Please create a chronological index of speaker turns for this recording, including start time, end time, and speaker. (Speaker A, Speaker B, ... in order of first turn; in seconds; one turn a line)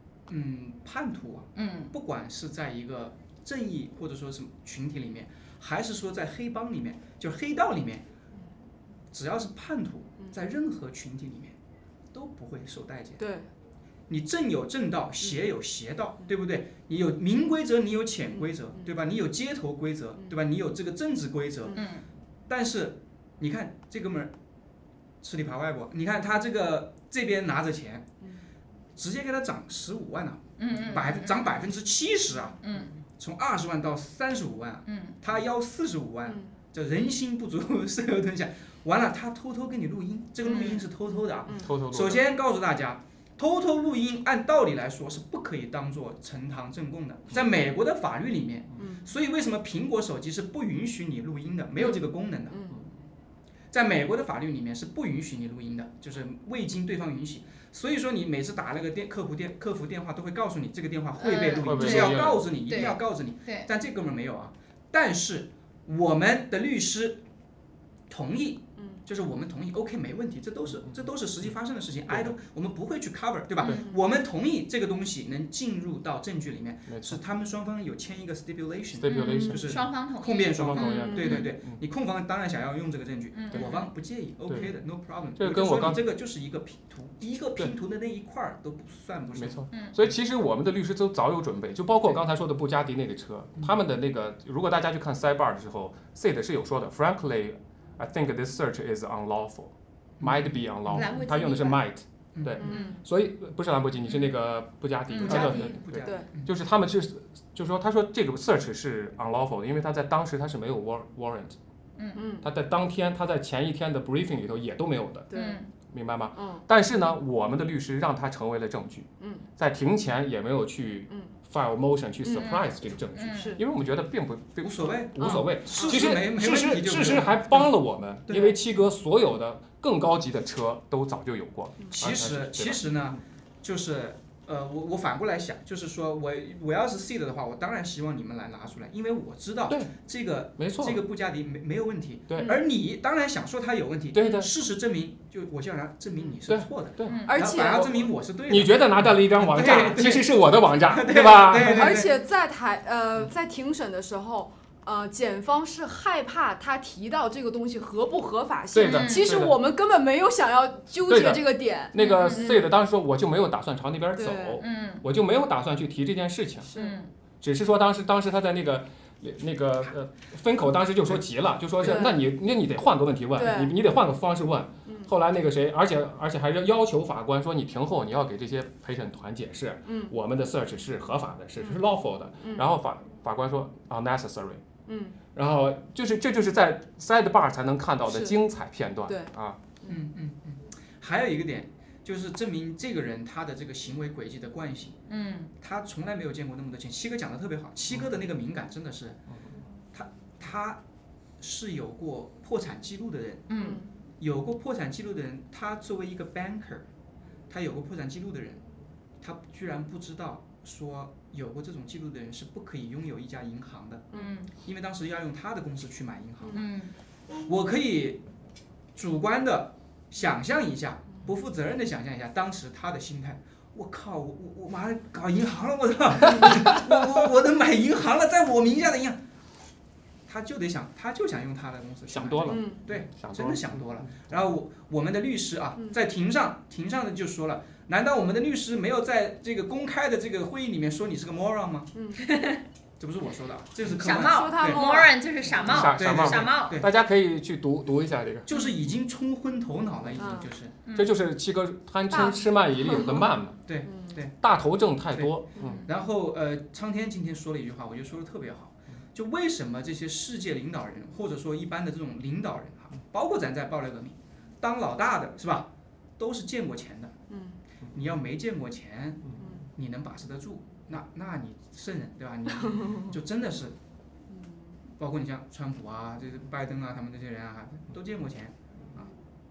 Speaker A: 0.3-8.0
Speaker B: 1.6-1.9
Speaker A: 9.1-11.6
Speaker A: 12.1-13.3
Speaker C: 13.2-13.5
Speaker A: 14.1-21.8
Speaker B: 21.7-22.0
Speaker A: 22.5-24.3
Speaker A: 25.2-28.1
Speaker A: 29.0-52.6
Speaker B: 30.6-31.4
Speaker B: 32.6-32.9
Speaker B: 34.9-35.1
Speaker B: 40.5-40.8
Speaker C: 41.5-41.7
Speaker D: 41.5-42.2
Speaker C: 48.8-49.0
Speaker C: 52.5-52.8
Speaker A: 53.7-67.2
Speaker B: 61.2-63.7
Speaker D: 61.6-62.9
Speaker A: 68.1-89.7
Speaker D: 72.1-72.4
Speaker C: 73.6-74.0
Speaker B: 73.6-73.9
Speaker D: 76.9-77.2
Speaker D: 78.9-79.6
Speaker C: 79.1-79.6
Speaker B: 79.5-81.4
Speaker D: 80.5-81.8
Speaker C: 80.8-81.4
Speaker B: 83.3-83.9
Speaker D: 84.5-84.7
Speaker D: 85.4-86.0
Speaker D: 89.3-111.6
Speaker A: 100.2-101.1
Speaker B: 100.9-101.8
Speaker A: 102.3-102.6
Speaker C: 102.6-103.0
Speaker B: 102.6-103.0
Speaker A: 105.1-106.5
Speaker C: 105.2-106.3
Speaker B: 105.2-105.6
Speaker C: 112.1-112.5
Speaker D: 112.4-132.9
Speaker C: 115.3-115.6
Speaker B: 115.3-115.7
Speaker C: 116.3-116.6
Speaker C: 119.2-119.5
Speaker C: 122.2-122.5
Speaker B: 122.3-123.6
Speaker C: 123.3-123.6
Speaker A: 124.6-127.7
Speaker C: 125.2-126.0
Speaker A: 128.3-128.6
Speaker A: 132.0-152.1
Speaker D: 139.7-139.9
Speaker D: 140.6-141.0
Speaker D: 142.3-142.6
Speaker D: 144.1-144.5
Speaker D: 146.5-152.0
Speaker B: 147.1-147.4
Speaker C: 147.2-147.9
Speaker C: 151.7-162.7
Speaker D: 158.7-159.6
Speaker B: 158.8-159.3
Speaker D: 161.1-166.7
Speaker B: 161.9-162.5
Speaker C: 164.2-164.6
Speaker B: 164.6-165.0
Speaker C: 166.7-167.0
Speaker B: 166.7-167.1
Speaker D: 167.4-184.6
Speaker C: 171.8-172.2
Speaker C: 173.3-173.7
Speaker C: 179.8-180.1
Speaker C: 182.4-182.7
Speaker C: 184.9-185.2
Speaker D: 185.3-189.6
Speaker C: 188.1-188.3
Speaker C: 189.1-189.3
Speaker A: 189.9-195.0
Speaker B: 195.1-195.5
Speaker A: 195.6-199.2
Speaker A: 199.9-200.8
Speaker A: 201.4-203.5
Speaker B: 203.5-203.8
Speaker C: 203.6-203.8
Speaker A: 204.2-206.8
Speaker A: 207.5-208.6
Speaker A: 209.2-216.6
Speaker B: 214.1-214.5
Speaker B: 216.5-216.9
Speaker A: 217.4-218.2
Speaker A: 218.9-229.2
Speaker A: 230.3-241.9
Speaker D: 232.1-234.4
Speaker C: 232.5-232.8
Speaker C: 241.9-242.2
Speaker B: 242.2-242.6
Speaker A: 243.0-245.1
Speaker B: 244.0-246.8
Speaker C: 244.2-245.9
Speaker D: 245.7-248.5
Speaker A: 245.7-246.9
Speaker A: 248.4-250.7
Speaker D: 250.0-250.3
Speaker C: 250.2-250.5
Speaker B: 250.8-251.1
Speaker D: 250.9-253.6
Speaker C: 252.1-253.3
Speaker A: 253.7-254.3
Speaker C: 253.8-254.1
Speaker D: 254.4-255.8
Speaker C: 255.6-255.8
Speaker B: 255.6-255.9
Speaker A: 255.8-267.2
Speaker C: 267.3-267.6
Speaker A: 267.9-273.7
Speaker C: 272.6-273.1
Speaker C: 274.3-274.7
Speaker A: 275.0-279.1